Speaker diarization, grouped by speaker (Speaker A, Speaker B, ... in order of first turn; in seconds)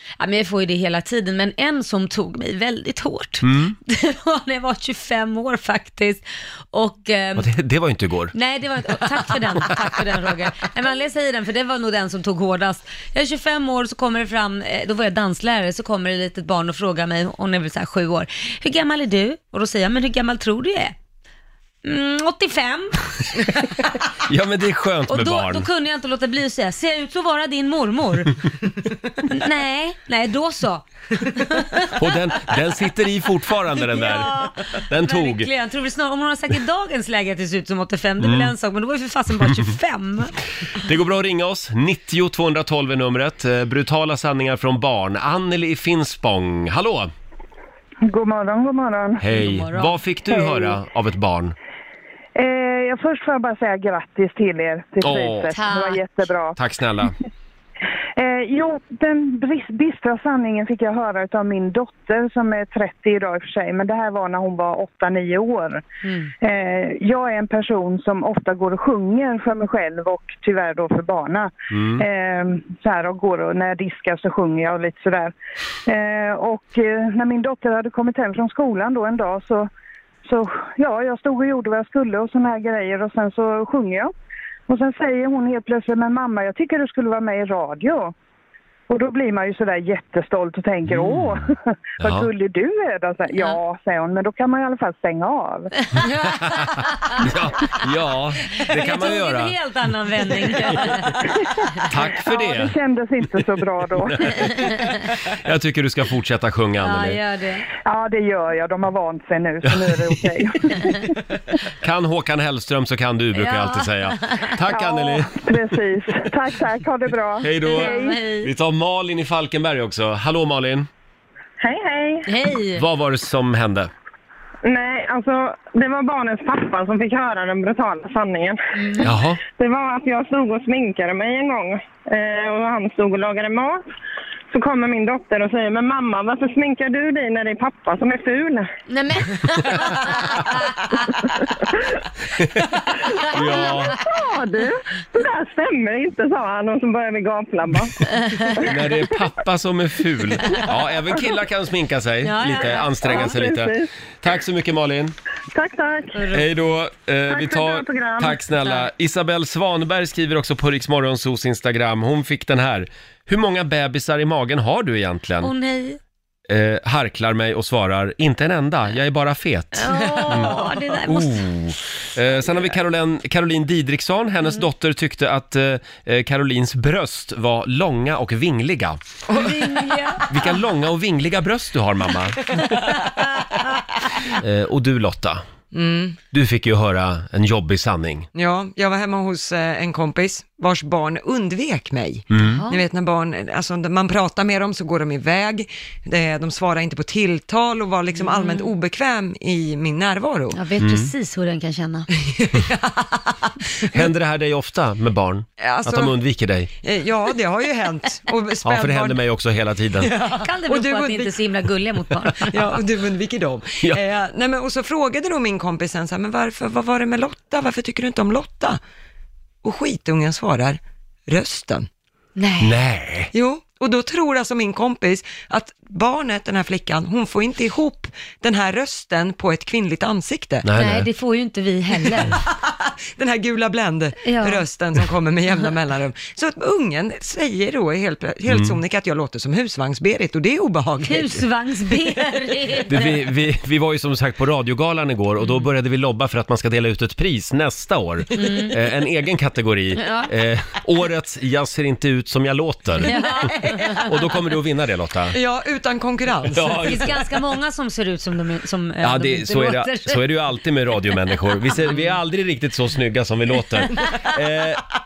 Speaker A: 0.2-7.5, 8.3-20.9, 21.8-23.6, 25.1-28.4, 29.2-31.9, 33.8-40.3, 49.3-50.0, 55.5-56.0, 66.0-66.3, 95.9-97.2, 98.7-101.2, 106.8-107.7, 113.3-114.5, 117.7-118.5, 122.2-122.8, 128.8-129.1, 138.9-140.9, 143.2-143.9, 148.1-148.6, 152.2-153.3, 156.1-156.4, 165.4-166.0, 169.8-171.5, 179.3-180.5, 192.4-192.8, 198.2-198.7, 200.5-202.1, 210.4-212.7, 222.3-222.7, 230.8-232.4, 234.2-234.6, 241.0-243.2, 248.3-248.8, 250.0-250.3, 253.0-254.1, 256.7-260.3
Speaker B: 3.4-3.7, 7.4-8.3, 24.3-25.6, 31.9-34.3, 34.9-35.5, 38.2-38.5, 40.8-47.1, 49.2-51.5, 55.0-55.5, 56.5-57.1, 71.7-72.0, 90.9-91.4, 92.0-92.3, 96.2-99.5, 100.7-101.1, 101.9-102.7, 104.1-107.2, 111.8-115.5, 117.4-120.9, 122.8-123.9, 129.0-129.4, 142.4-142.7, 143.3-144.0, 148.6-155.1, 156.3-165.5, 166.5-179.0, 180.3-182.9, 184.3-185.4, 186.3-188.3, 192.3-192.6, 200.8-201.1, 203.9-206.7, 208.6-210.1, 222.6-223.3, 230.6-231.1, 238.5-238.8, 242.9-253.2, 254.0-255.3, 256.5-257.1, 259.0-264.8
Speaker C: 48.0-49.2, 50.3-50.7, 52.4-56.5, 58.1-65.8, 66.4-75.3, 75.8-79.7, 80.2-84.1, 84.7-88.1, 88.9-95.7, 102.2-104.4, 107.8-111.1, 114.7-118.2
Speaker D: 121.6-122.3, 124.6-128.6, 129.6-133.8, 134.5-138.7, 143.4-148.7, 153.0-153.9, 155.5-156.2, 157.3-158.4
Speaker E: 170.1-170.4, 179.3-179.9, 185.7-186.2, 188.3-200.6, 202.2-203.6, 205.6-206.2, 206.8-209.2, 210.0-211.3, 212.4-218.8, 219.6-221.9, 223.3-230.7, 232.2-241.4, 255.3-257.0